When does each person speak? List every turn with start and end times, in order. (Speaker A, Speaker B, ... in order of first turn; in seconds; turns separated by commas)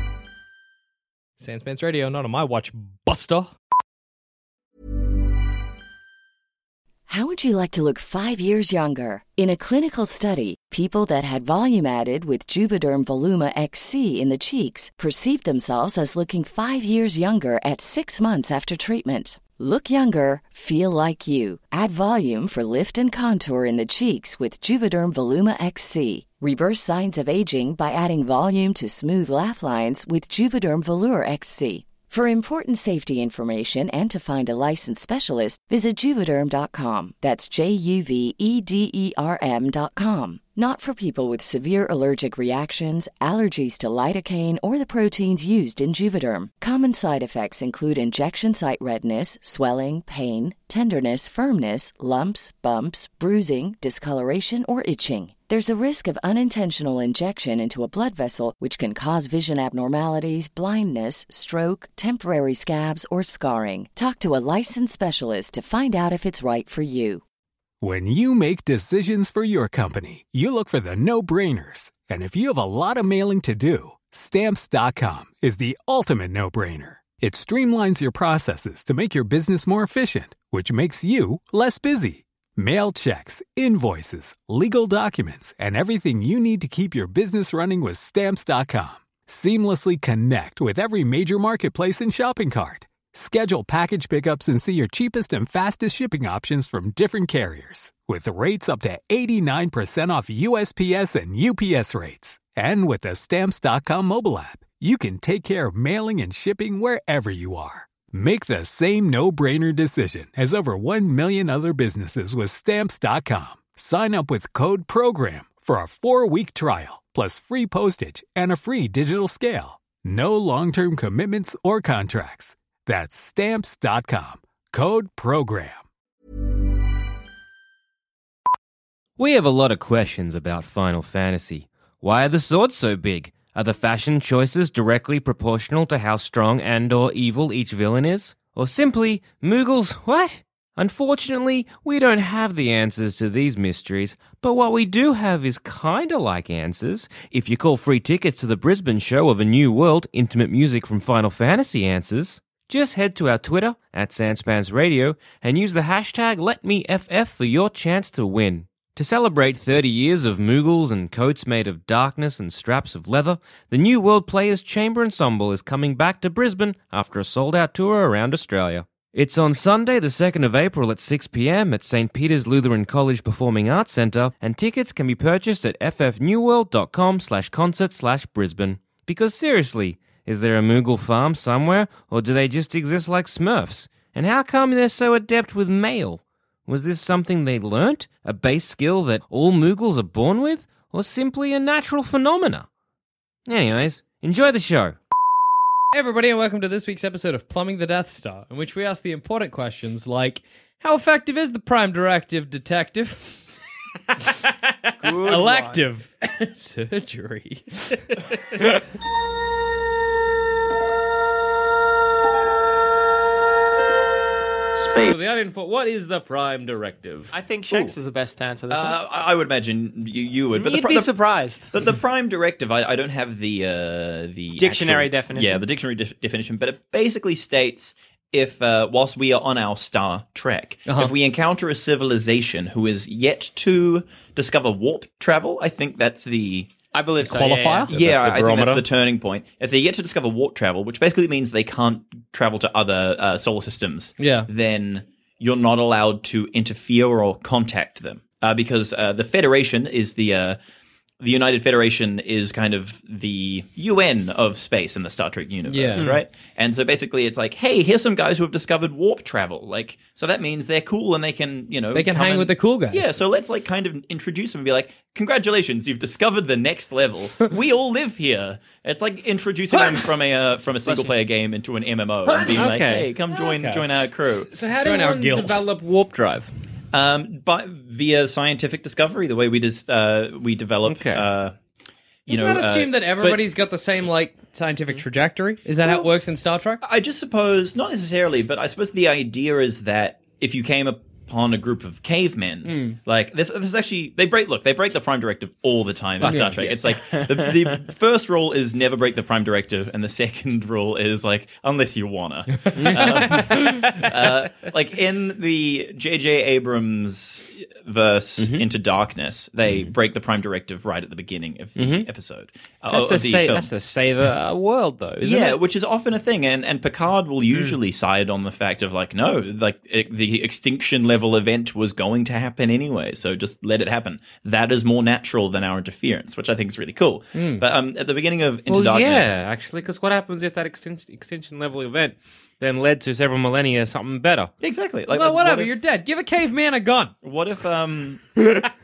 Speaker A: 1.4-3.5, Speaker B: 7.1-67.2, Speaker C: 67.8-125.8, Speaker D: 129.2-192.7, Speaker D: 193.5-195.0, Speaker A: 195.9-203.4, Speaker E: 205.0-205.8, Speaker A: 205.2-207.7, Speaker D: 214.8-217.9, Speaker E: 217.3-219.0, Speaker F: 218.7-221.1, Speaker E: 220.5-221.7, Speaker F: 221.7-236.7, Speaker E: 224.6-225.7, Speaker A: 230.9-231.1, Speaker E: 236.9-237.9, Speaker A: 237.2-237.9, Speaker F: 237.9-250.6, Speaker D: 237.9-238.8, Speaker A: 244.2-244.5, Speaker F: 251.2-274.5, Speaker A: 255.7-256.1, Speaker A: 261.9-263.2, Speaker D: 272.3-273.1, Speaker A: 273.4-273.9, Speaker D: 274.5-276.5, Speaker A: 274.8-275.6, Speaker F: 276.9-281.6, Speaker D: 280.9-281.2, Speaker A: 282.3-286.8, Speaker F: 282.3-283.1, Speaker F: 285.8-286.1, Speaker F: 286.8-313.7, Speaker A: 292.6-293.0, Speaker D: 296.2-297.5, Speaker A: 296.2-296.6, Speaker D: 302.8-304.1, Speaker A: 302.9-303.5, Speaker D: 308.4-308.6, Speaker D: 311.8-312.1, Speaker D: 312.9-315.6, Speaker F: 315.2-329.4, Speaker A: 327.3-327.7, Speaker D: 328.7-334.5, Speaker F: 334.6-335.8, Speaker A: 335.1-337.1, Speaker F: 337.2-338.4